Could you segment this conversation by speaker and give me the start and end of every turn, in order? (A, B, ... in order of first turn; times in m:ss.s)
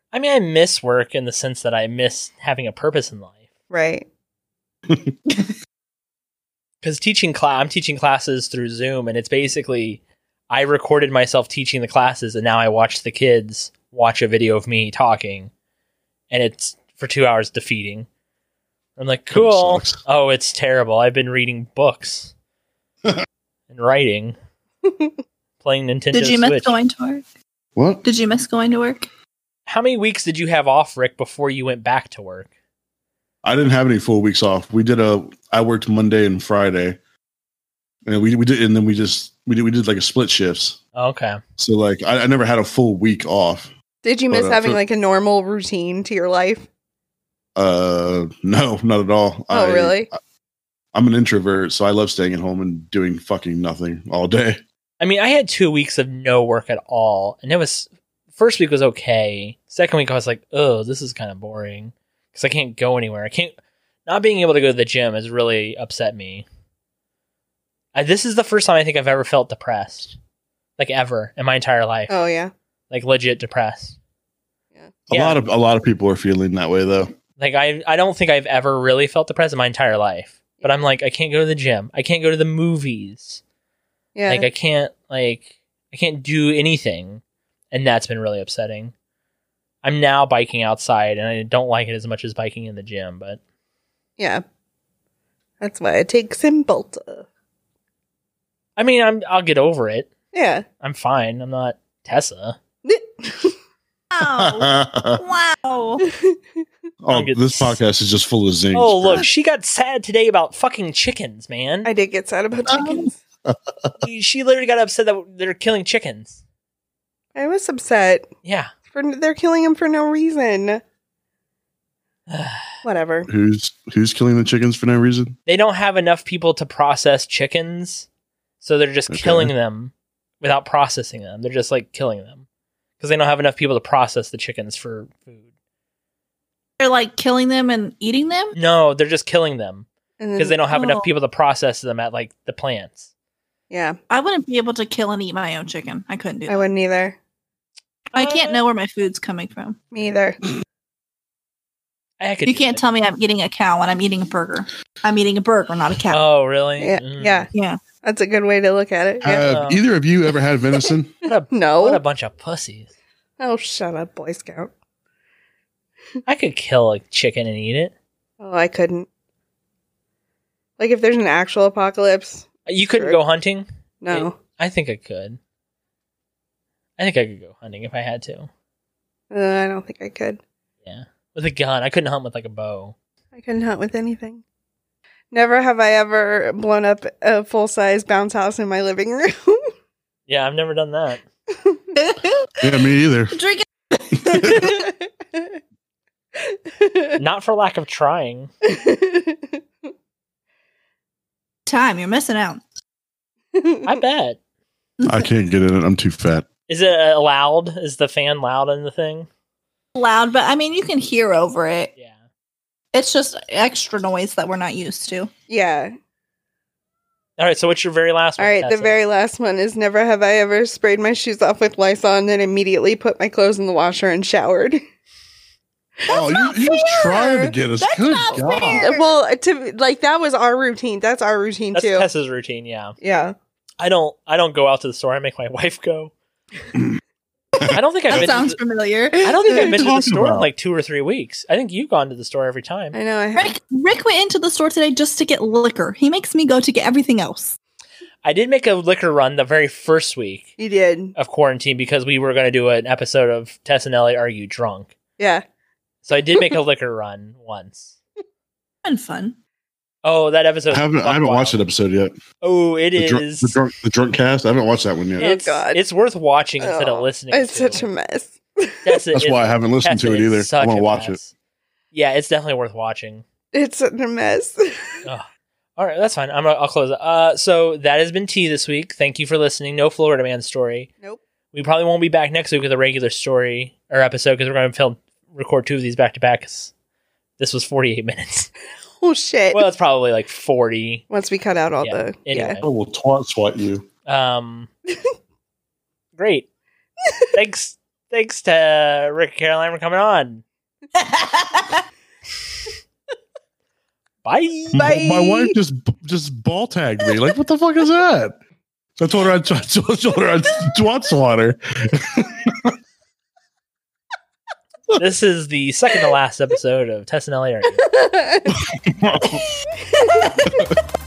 0:00.1-0:03.4 A
0:03.7-0:04.1 B
0:06.8-0:15.5 A
0:16.3-0:18.1 A
0:19.0-0:22.3 A
0:19.3-0:20.0 C
0:23.7-0:24.4 A
0:25.6-0:26.8 A
0:26.1-0:27.2 D
0:27.8-0:28.0 C
0:28.0-0:29.1 D
0:29.7-0:32.5 A
0:33.4-0:37.0 C
0:38.0-0:40.8 C
0:41.0-0:41.4 A
0:41.6-0:43.7 C
0:44.0-0:46.7 B
0:44.3-0:44.8 C
0:47.6-0:50.1 C
0:49.5-0:50.1 B
0:50.9-0:54.6 C
0:55.0-1:03.5 A
1:04.1-1:06.4 A
1:07.9-1:10.2 A
1:10.8-1:12.1 A
1:12.1-1:12.5 B
1:12.9-1:14.0 A
1:15.1-1:17.2 C
1:15.1-1:15.4 A
1:17.4-1:23.4 A
1:24.2-1:24.5 B
1:24.3-1:28.9 A
1:29.8-1:33.4 A
1:34.2-1:34.4 B
1:35.6-1:37.3 B
1:38.8-1:40.1 A
1:40.3-1:40.6 B
1:40.8-1:42.6 A
1:42.8-1:43.6 B
1:44.1-1:46.0 D
1:44.2-1:45.2 C
1:46.1-1:46.4 B
1:47.0-1:49.3 C
1:47.1-1:47.8 A
1:48.7-1:51.9 A
1:51.8-1:53.1 B
1:52.7-1:53.1 D
1:54.0-1:56.4 A
1:57.4-1:58.3 B
1:58.4-1:58.7 A
1:58.9-2:00.8 B
2:02.3-2:02.7 A
2:02.8-2:03.3 B
2:03.3-2:05.4 C
2:05.5-2:08.1 A
2:08.6-2:12.4 A
2:09.1-2:09.5 C
2:13.0-2:15.4 A
2:16.8-2:18.6 D
2:18.5-2:23.1 A
2:20.2-2:20.6 B
2:20.7-2:21.1 D
2:23.7-2:24.0 B
2:24.1-2:26.7 D
2:26.5-2:27.2 B
2:28.1-2:29.8 D
2:28.2-2:28.6 A
2:29.9-2:30.4 B
2:32.2-2:32.8 A
2:32.4-2:36.2 D
2:36.1-2:37.5 A
2:36.8-2:37.5 B
2:37.5-2:37.8 D
2:38.0-2:39.5 B
2:39.2-2:41.1 C
2:39.3-2:39.8 A
2:41.2-2:42.9 A
2:41.5-2:42.0 B
2:43.4-2:44.7 B
2:46.3-2:47.9 A
2:48.4-2:49.1 B
2:50.8-2:53.2 B
2:52.7-2:55.4 A
2:54.0-2:54.4 B
2:57.0-2:58.5 A
2:59.3-3:00.4 B
3:00.8-3:02.9 A
3:03.4-3:04.4 B
3:05.3-3:09.7 B
3:10.3-3:11.2 A
3:12.0-3:12.7 D
3:12.6-3:13.4 C
3:13.3-3:14.8 D
3:14.2-3:14.7 C
3:14.4-3:15.4 B
3:16.5-3:17.2 B
3:17.2-3:18.5 A
3:18.7-3:19.6 B
3:21.7-3:22.6 D
3:23.6-3:23.9 B
3:23.8-3:24.4 A
3:25.0-3:25.3 D
3:25.0-3:26.5 C
3:26.7-3:29.3 A
3:30.0-3:31.9 D
3:32.9-3:35.3 D
3:35.5-3:35.9 B
3:37.4-3:39.0 A
3:38.4-3:44.8 B
3:46.1-3:48.9 C
3:46.1-3:49.0 D
3:47.0-3:47.5 B
3:48.7-3:52.1 B
3:51.7-3:53.0 A
3:53.0-3:53.4 B
3:53.8-3:56.1 A
3:57.6-3:58.3 C
3:57.7-3:58.6 A
3:58.1-3:59.4 D
3:59.2-4:03.0 A
3:59.5-4:00.5 C
4:02.9-4:03.6 B
4:03.4-4:07.6 D
4:08.2-4:10.5 A
4:10.6-4:11.2 B
4:11.2-4:14.9 A
4:15.2-4:15.4 B
4:16.0-4:18.0 A
4:18.8-4:19.4 D
4:20.0-4:21.6 A
4:20.7-4:22.1 C
4:22.4-4:23.6 A
4:23.0-4:25.3 C
4:25.2-4:27.9 A
4:25.2-4:25.8 B
4:26.6-4:28.8 B
4:28.8-4:31.3 A
4:29.1-4:31.2 C
4:31.9-4:33.2 A
4:33.5-4:34.6 B
4:35.8-4:40.9 A
4:41.5-4:46.7 A
4:47.4-4:48.5 A
4:49.0-4:49.6 B
4:49.5-4:51.0 A
4:51.1-4:52.6 B
4:51.8-4:52.7 A
4:52.4-4:53.9 C
4:54.1-4:54.7 A
4:56.2-4:56.5 A
4:57.3-5:00.4 A
5:01.0-5:01.8 D
5:04.2-5:04.9 A
5:04.7-5:08.4 C
5:04.8-5:05.6 B
5:09.0-5:12.8 C
5:14.9-5:17.8 A
5:17.9-5:18.5 B
5:18.6-5:19.4 C
5:19.8-5:20.6 B